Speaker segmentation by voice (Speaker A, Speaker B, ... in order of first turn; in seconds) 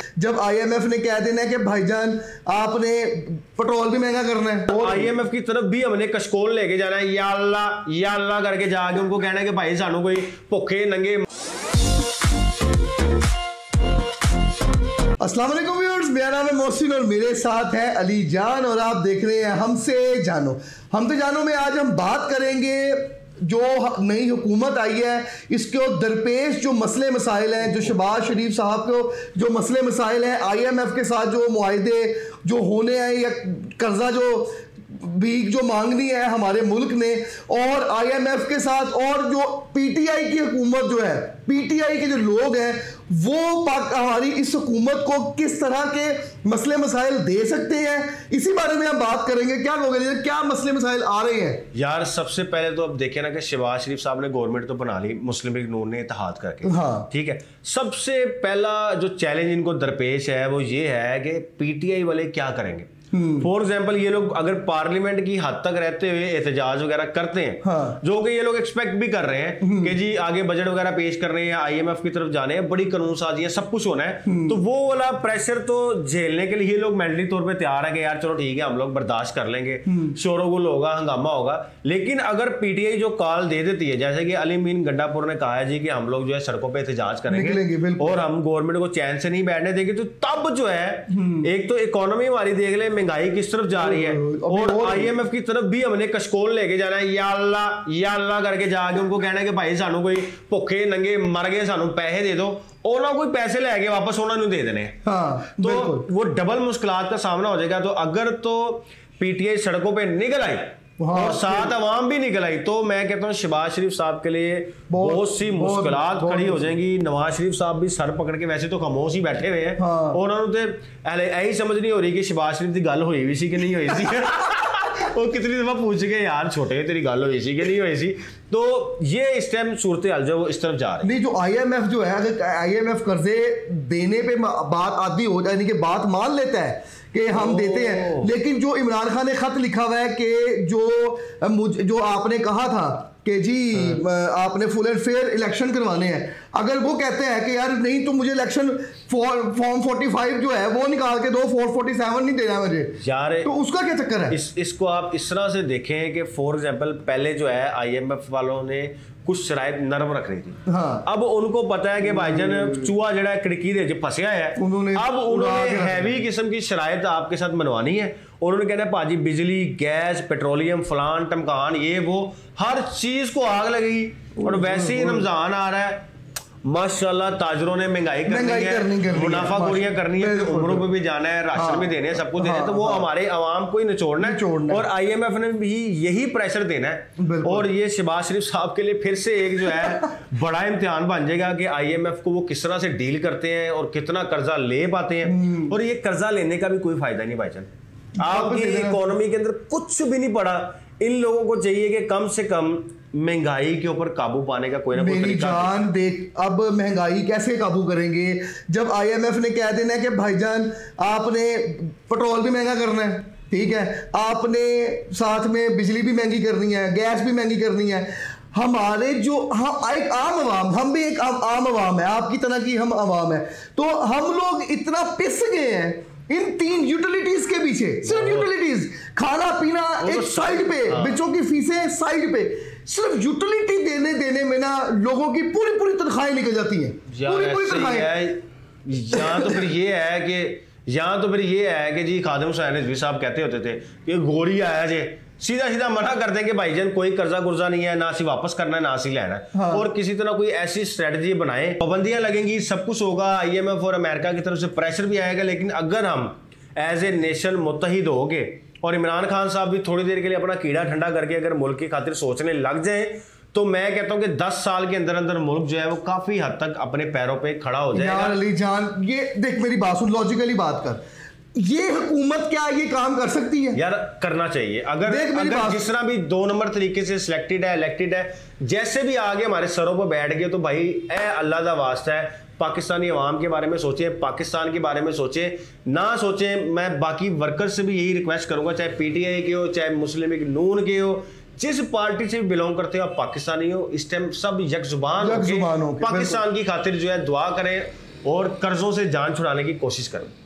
Speaker A: 0.2-5.1, 15.2-51.6, 56.6-57.1, 63.1-63.5, 67.6-68.0, 69.6-70.0, 74.3-74.6, 79.9-80.2, 87.3-88.2, 91.1-91.5, 93.8-95.2, 105.0-106.1, 111.0-111.8, 114.9-116.7, 119.8-120.2, 131.0-154.4, 160.7-161.1, 162.0-162.9, 164.6-166.2, 174.4-175.3, 178.3-180.9, 181.5-183.1, 184.2-184.8, 187.2-187.7, 195.2-195.8, 198.2-199.1, 204.9-238.2, 239.1-239.6, 249.5-249.9, 267.9-271.0, 271.6-273.8, 275.1-275.9, 295.2-296.4
Speaker B: 4.7-11.2, 51.7-105.0, 105.6-131.1, 137.3-138.3, 143.8-144.0, 153.0-153.5, 154.3-176.0, 176.7-205.8, 228.1-228.5, 230.0-231.2, 237.1-268.4, 273.7-300.3